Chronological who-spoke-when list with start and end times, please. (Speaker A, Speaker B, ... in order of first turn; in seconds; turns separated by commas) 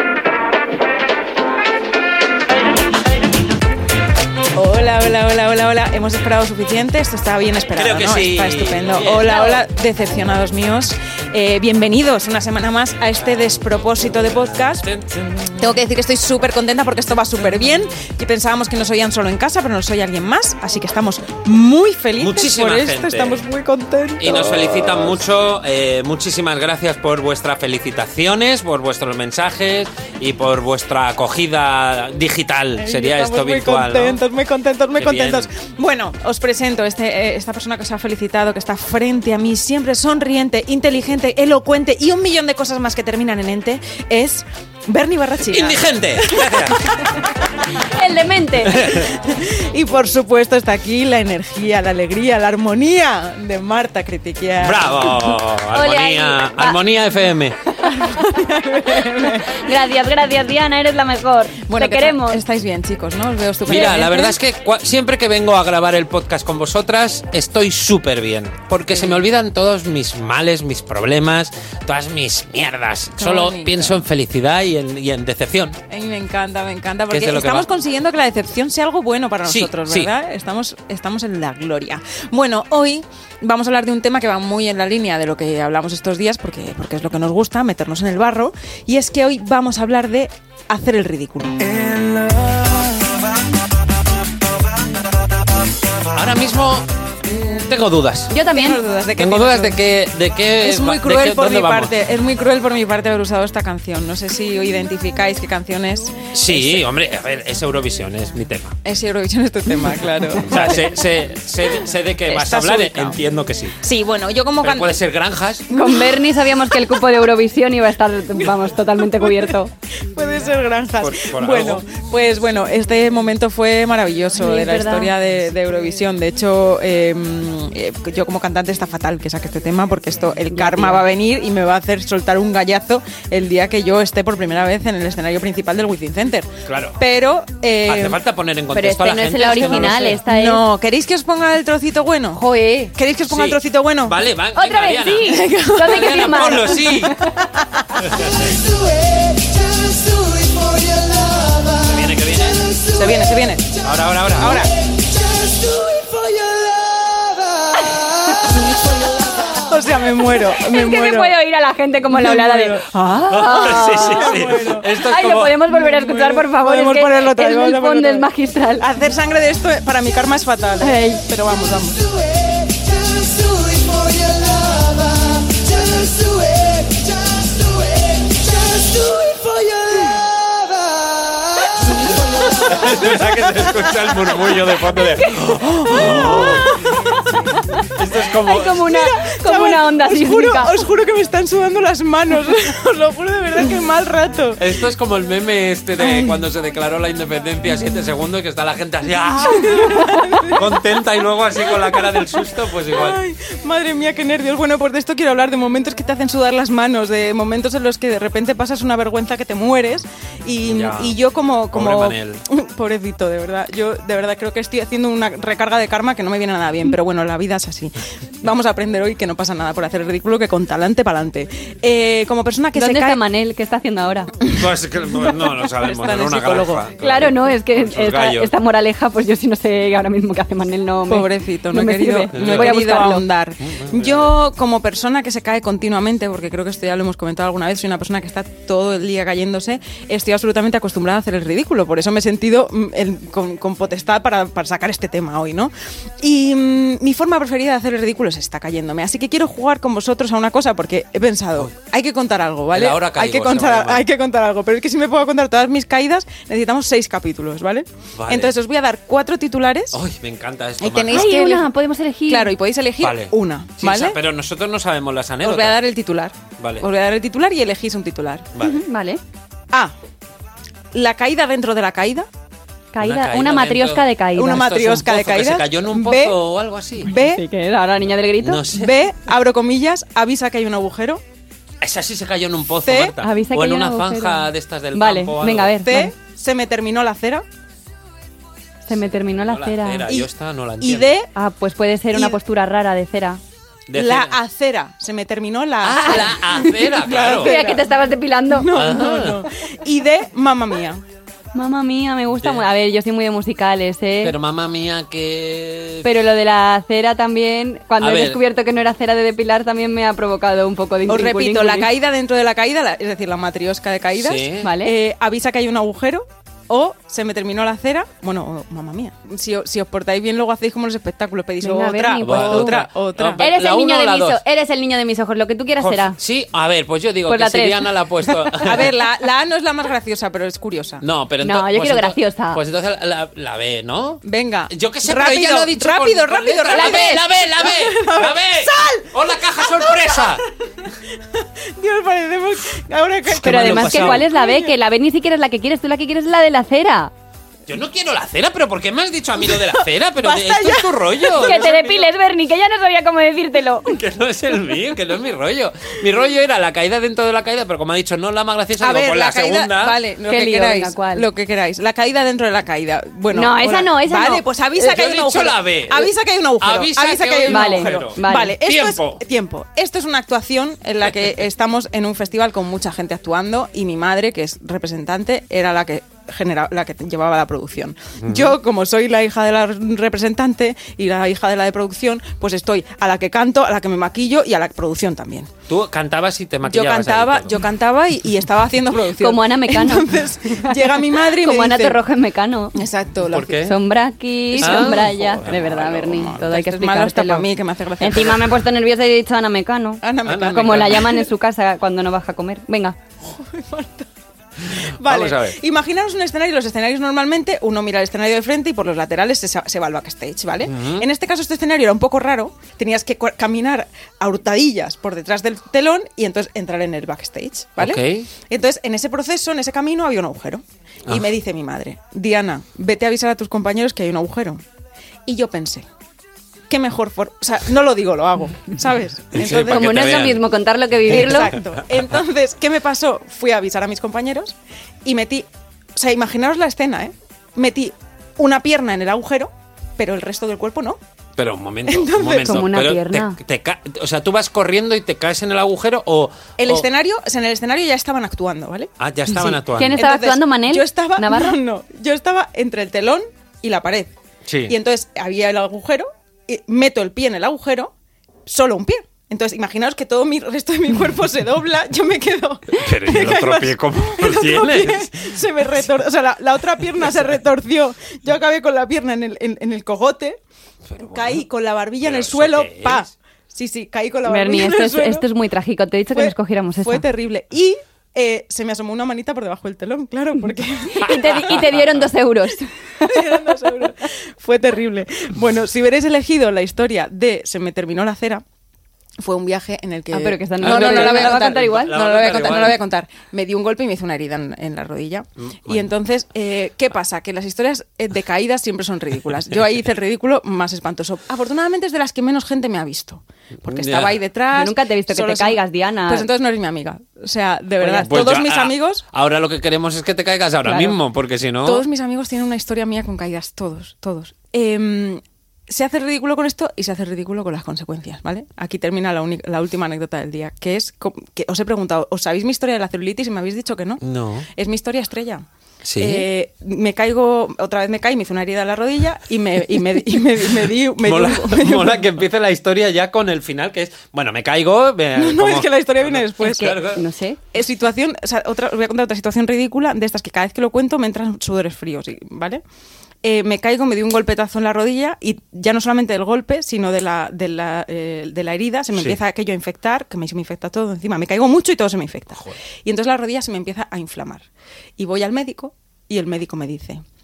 Speaker A: 4.5-14.8, Speaker B: 7.8-9.6, Speaker B: 14.8-15.6, Speaker A: 15.6-25.1, Speaker B: 22.2-23.4, Speaker B: 24.2-34.2, Speaker A: 32.8-47.0, Speaker B: 34.9-35.5, Speaker B: 45.5-46.8, Speaker C: 47.9-48.9, Speaker B: 48.7-49.1, Speaker A: 48.7-55.3, Speaker B: 54.6-57.6, Speaker C: 55.7-56.8, Speaker A: 57.8-59.7, Speaker C: 59.5-62.4, Speaker A: 61.7-64.4, Speaker B: 63.6-75.8, Speaker A: 68.9-69.2, Speaker A: 73.2-74.0, Speaker A: 75.9-91.7, Speaker B: 77.1-77.7, Speaker B: 79.4-80.1, Speaker B: 96.1-98.3, Speaker C: 98.3-98.8, Speaker A: 98.5-99.8, Speaker B: 99.2-101.9, Speaker A: 100.6-106.8, Speaker B: 106.3-108.7, Speaker A: 108.8-110.9, Speaker B: 110.4-113.8, Speaker A: 112.3-113.2, Speaker A: 113.8-114.9, Speaker B: 114.6-115.7, Speaker C: 115.7-119.7, Speaker A: 115.7-116.2, Speaker A: 118.4-119.5, Speaker A: 120.1-138.2, Speaker B: 121.0-121.8, Speaker C: 124.4-125.1, Speaker C: 130.5-131.0, Speaker B: 136.7-137.0, Speaker B: 137.8-140.2, Speaker C: 138.7-140.6, Speaker A: 139.4-142.4, Speaker C: 142.3-142.9, Speaker A: 142.9-144.2, Speaker B: 143.2-147.2, Speaker C: 144.6-147.0, Speaker A: 145.2-146.4, Speaker A: 147.4-148.0, Speaker B: 148.1-148.4, Speaker B: 151.8-152.7, Speaker A: 152.9-153.7, Speaker B: 153.8-154.6, Speaker A: 154.3-154.7, Speaker A: 159.5-161.3, Speaker C: 160.7-168.9, Speaker A: 162.1-164.9, Speaker B: 163.3-165.6, Speaker A: 165.7-172.2, Speaker C: 170.8-171.2, Speaker A: 179.0-180.2, Speaker A: 182.5-184.7, Speaker B: 182.6-186.8, Speaker A: 185.3-187.5, Speaker B: 187.9-188.8, Speaker C: 188.5-190.7, Speaker A: 188.9-194.6, Speaker B: 194.6-203.2, Speaker A: 196.0-196.4, Speaker A: 199.3-200.9, Speaker A: 201.7-223.2, Speaker B: 210.6-211.2, Speaker B: 211.7-212.4, Speaker C: 222.7-224.3, Speaker B: 224.5-228.5, Speaker A: 225.8-226.8, Speaker C: 227.0-233.2, Speaker A: 231.1-260.0, Speaker B: 232.3-232.7, Speaker B: 233.6-234.3, Speaker B: 252.7-254.1, Speaker B: 258.1-258.5, Speaker B: 259.9-261.4, Speaker A: 260.8-261.7, Speaker C: 261.1-262.5, Speaker A: 262.3-264.2, Speaker B: 263.0-265.8, Speaker A: 265.4-268.5, Speaker B: 266.6-266.9, Speaker B: 268.5-268.8, Speaker C: 268.6-269.2, Speaker A: 270.9-272.3, Speaker C: 272.9-274.7, Speaker B: 273.0-277.1, Speaker A: 274.3-276.4, Speaker A: 277.0-277.4, Speaker C: 277.1-278.6, Speaker B: 278.4-279.0, Speaker A: 278.7-281.2, Speaker B: 281.8-285.8, Speaker A: 282.8-283.1, Speaker C: 283.2-286.1, Speaker A: 285.8-287.4, Speaker C: 288.9-290.2, Speaker B: 289.4-291.1, Speaker A: 290.8-291.3, Speaker C: 291.3-293.4, Speaker A: 292.1-292.4, Speaker B: 293.9-294.4, Speaker A: 293.9-297.9, Speaker B: 295.8-297.6, Speaker C: 296.0-296.7, Speaker C: 297.3-298.7, Speaker A: 298.5-301.0, Speaker B: 298.7-299.4, Speaker C: 301.5-304.3, Speaker B: 302.4-302.6, Speaker B: 304.2-306.1, Speaker C: 306.0-311.9, Speaker B: 308.0-308.4, Speaker A: 311.1-323.4, Speaker B: 314.1-314.7, Speaker C: 314.6-314.9, Speaker C: 321.6-322.8, Speaker B: 322.2-324.4, Speaker C: 323.4-326.2, Speaker B: 325.8-328.9, Speaker C: 327.3-327.9, Speaker A: 328.6-331.0, Speaker B: 331.0-340.4, Speaker C: 331.4-332.6, Speaker A: 334.2-339.1, Speaker C: 336.7-337.2, Speaker A: 339.6-340.2, Speaker A: 341.3-344.8, Speaker B: 343.3-344.2, Speaker C: 343.4-347.1, Speaker B: 347.7-352.0, Speaker A: 350.2-351.7, Speaker C: 351.3-353.9, Speaker B: 353.9-360.0, Speaker A: 358.8-385.5, Speaker C: 360.3-361.2, Speaker C: 363.3-364.4, Speaker B: 364.8-369.2, Speaker C: 367.5-368.6, Speaker B: 378.2-378.6, Speaker B: 385.7-387.6, Speaker A: 386.6-392.0, Speaker C: 389.2-392.8, Speaker A: 392.7-393.6, Speaker B: 393.2-393.8, Speaker C: 393.6-397.5, Speaker A: 394.5-398.4, Speaker B: 394.6-395.9, Speaker C: 398.0-403.0, Speaker A: 400.0-401.2, Speaker B: 400.2-401.0, Speaker A: 403.2-404.1, Speaker B: 404.7-405.6, Speaker A: 404.8-424.6, Speaker B: 410.6-411.1, Speaker B: 417.8-418.3, Speaker A: 425.2-425.9, Speaker A: 426.7-430.2, Speaker B: 429.3-430.4, Speaker C: 429.7-431.5, Speaker A: 431.1-441.0, Speaker B: 431.1-431.6, Speaker B: 441.4-446.9, Speaker A: 441.9-442.7, Speaker C: 442.4-443.4, Speaker A: 446.6-454.1, Speaker B: 449.0-450.0, Speaker C: 449.7-451.6, Speaker B: 454.5-454.7, Speaker A: 454.7-457.9, Speaker A: 458.5-470.4, Speaker B: 462.8-465.2, Speaker B: 470.9-471.4, Speaker A: 471.0-475.2, Speaker B: 472.0-473.1, Speaker C: 474.3-477.0, Speaker A: 476.1-481.8, Speaker C: 480.9-483.2, Speaker A: 483.0-488.4, Speaker A: 489.2-509.0, Speaker C: 490.1-491.9, Speaker B: 490.6-492.8, Speaker B: 495.4-495.9, Speaker B: 503.6-504.2, Speaker C: 504.5-506.3, Speaker B: 507.8-511.8, Speaker C: 510.6-510.9, Speaker A: 511.6-524.0, Speaker B: 524.0-524.5, Speaker A: 524.5-525.5, Speaker B: 525.8-526.3, Speaker A: 526.0-532.1, Speaker B: 531.0-537.0, Speaker A: 535.1-536.8, Speaker C: 536.4-537.4, Speaker A: 537.5-542.6, Speaker A: 543.2-554.5, Speaker B: 548.9-549.2, Speaker A: 555.0-557.0